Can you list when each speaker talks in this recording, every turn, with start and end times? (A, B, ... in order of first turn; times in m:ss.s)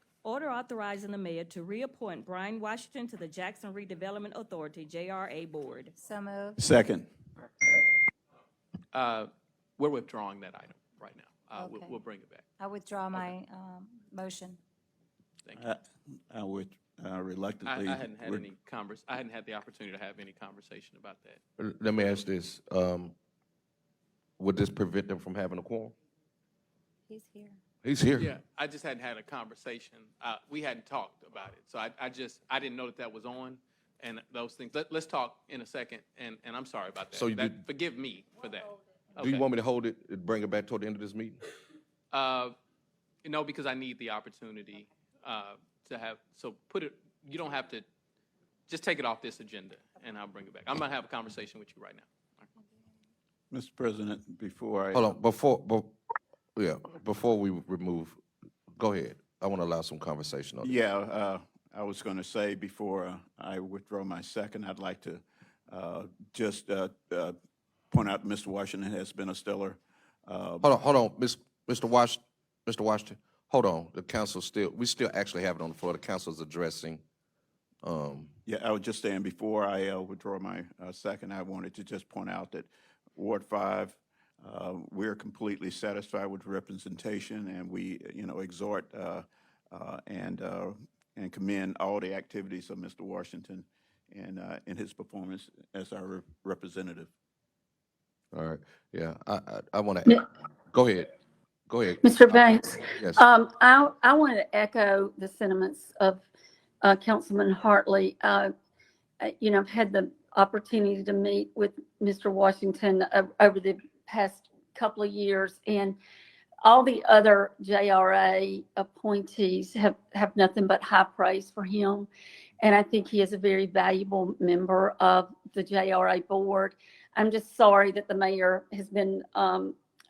0:00.2-0:06.6 A
0:06.0-0:06.5 B
0:06.6-0:07.1 C
0:08.9-0:12.4 D
0:12.6-0:14.6 B
0:12.8-0:13.3 A
0:15.6-0:18.5 C
0:17.6-0:21.4 D
0:21.6-0:23.1 E
0:24.4-0:25.9 E
0:27.1-0:27.6 B
0:27.8-0:28.3 E
0:28.2-0:39.5 D
0:37.1-0:37.6 E
0:39.2-0:41.4 E
0:42.1-0:42.5 D
0:43.2-0:47.8 D
0:48.7-0:52.0 D
0:53.5-0:55.1 C
0:54.9-0:55.9 E
0:56.6-0:58.2 E
0:58.8-1:00.7 E
1:00.6-1:07.4 C
1:07.9-1:10.6 C
1:10.6-1:17.0 E
1:17.8-1:18.3 E
1:18.5-1:37.1 C
1:38.3-1:41.1 E
1:41.7-1:43.2 E
1:42.0-1:46.2 F
1:46.8-1:48.5 F
1:49.2-1:56.0 F
1:56.6-2:02.1 F
2:02.6-2:09.7 F